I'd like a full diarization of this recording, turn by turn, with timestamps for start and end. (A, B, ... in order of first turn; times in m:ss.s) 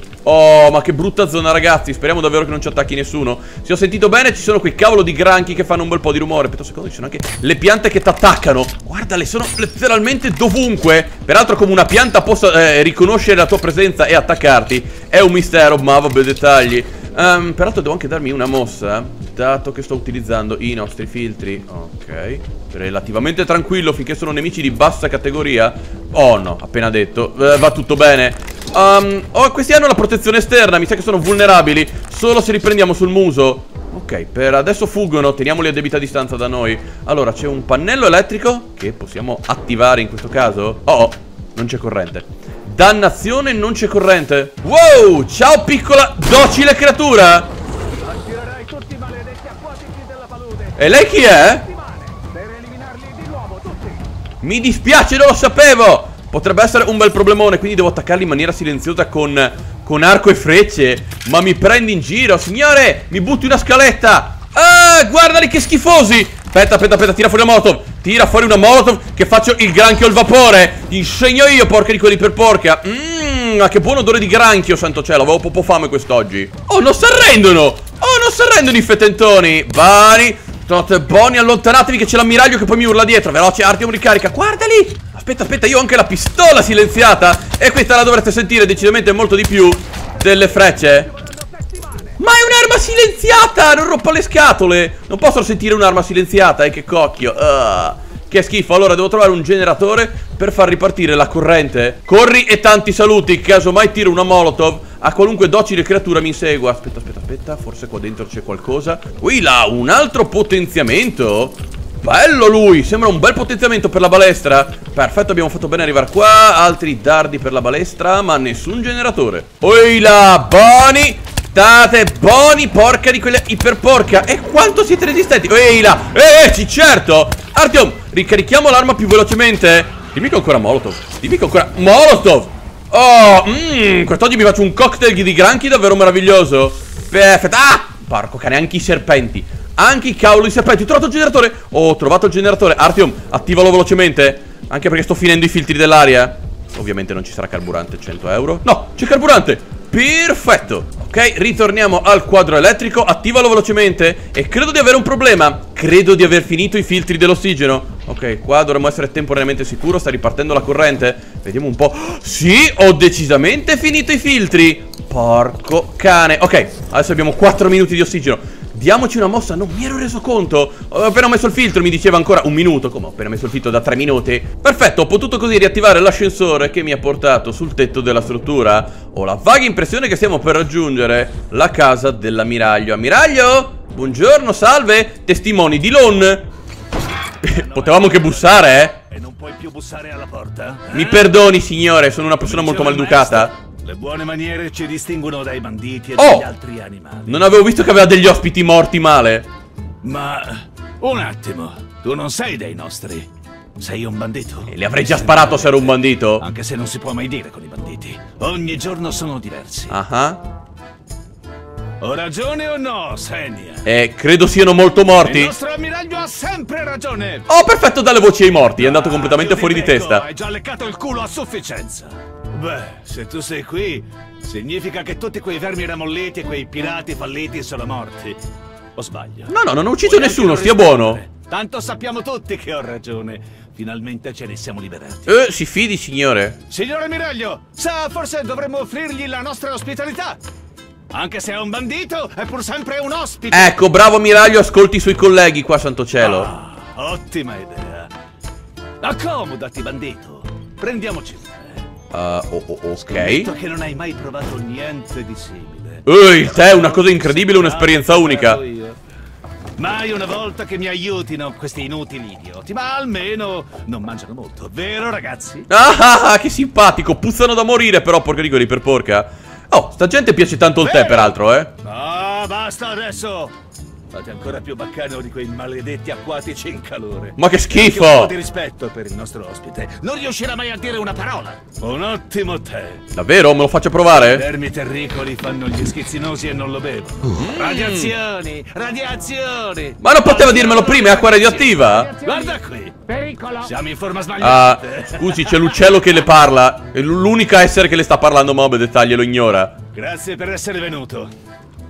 0:00.2-0:47.5 A
0:48.0-0:54.0 B
0:50.8-0:51.7 A
0:54.4-1:31.1 A
1:31.1-1:32.2 B
1:32.2-3:06.5 A
3:07.4-3:09.0 A
3:07.4-3:11.4 B
3:10.9-3:13.5 A
3:12.4-3:17.4 B
3:16.2-3:16.5 A
3:17.3-3:19.5 A
3:20.0-3:30.0 B
3:24.7-3:26.4 A
3:29.9-3:30.4 A
3:32.0-3:33.9 B
3:33.8-3:35.5 A
3:35.2-3:37.5 B
3:37.5-3:40.2 A
3:38.7-3:48.4 B
3:49.0-3:55.4 B
3:49.5-3:51.2 A
3:55.3-3:56.6 A
3:56.7-4:00.4 B
4:01.1-4:03.8 B
4:03.5-4:06.5 A
4:06.2-4:08.1 B
4:09.0-4:11.9 B
4:12.1-4:13.5 A
4:13.0-4:19.0 B
4:16.0-4:18.6 A
4:19.8-4:25.7 B
4:25.7-4:31.7 A
4:30.8-4:33.6 B
4:34.1-4:43.0 B
4:37.4-4:38.3 A
4:43.1-4:44.5 A
4:44.1-4:53.0 B
4:47.3-4:48.1 A
4:50.0-4:52.1 A
4:51.6-4:53.7 C
4:53.6-4:56.0 B
4:54.4-4:59.8 A
4:59.9-5:01.3 B